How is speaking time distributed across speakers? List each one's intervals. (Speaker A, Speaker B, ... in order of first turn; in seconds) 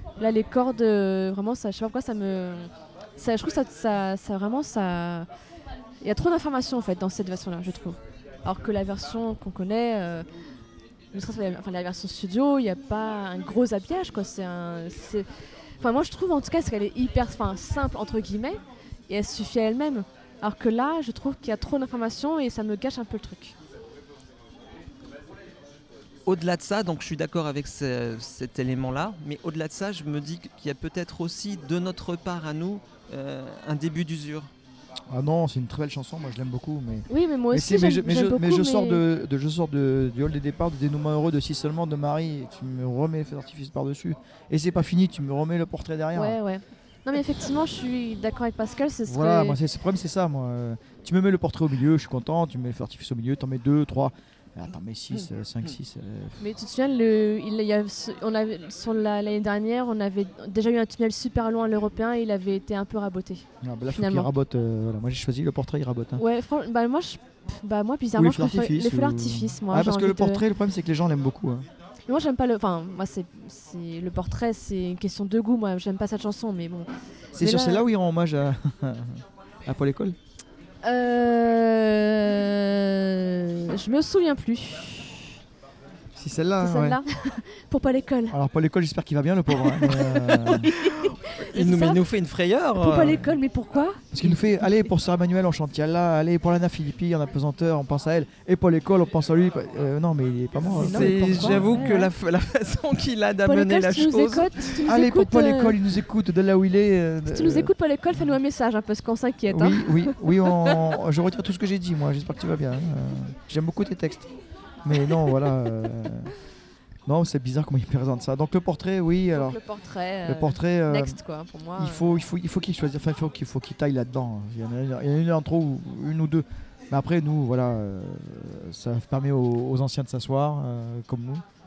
Speaker A: 0.2-5.3, 6.0-10.2, 11.1-15.3, 15.8-23.5, 37.1-39.0, 46.1-49.6, 56.4-64.3, 66.2-70.4, 72.1-77.9, 80.8-85.4, 86.6-88.3, 89.7-92.0, 92.8-94.9, 100.7-102.1, 103.5-105.8, 107.3-111.0, 119.3-122.2
Speaker B: 26.3-34.5, 90.7-93.3, 100.8-104.8
Speaker C: 35.1-46.4, 49.0-56.4, 63.6-66.2, 68.2-71.7, 77.4-80.2, 86.2-87.0, 88.3-90.7, 94.1-101.7, 104.9-107.7, 109.5-114.3, 114.8-116.3, 117.0-119.6, 120.2-121.2, 121.8-131.4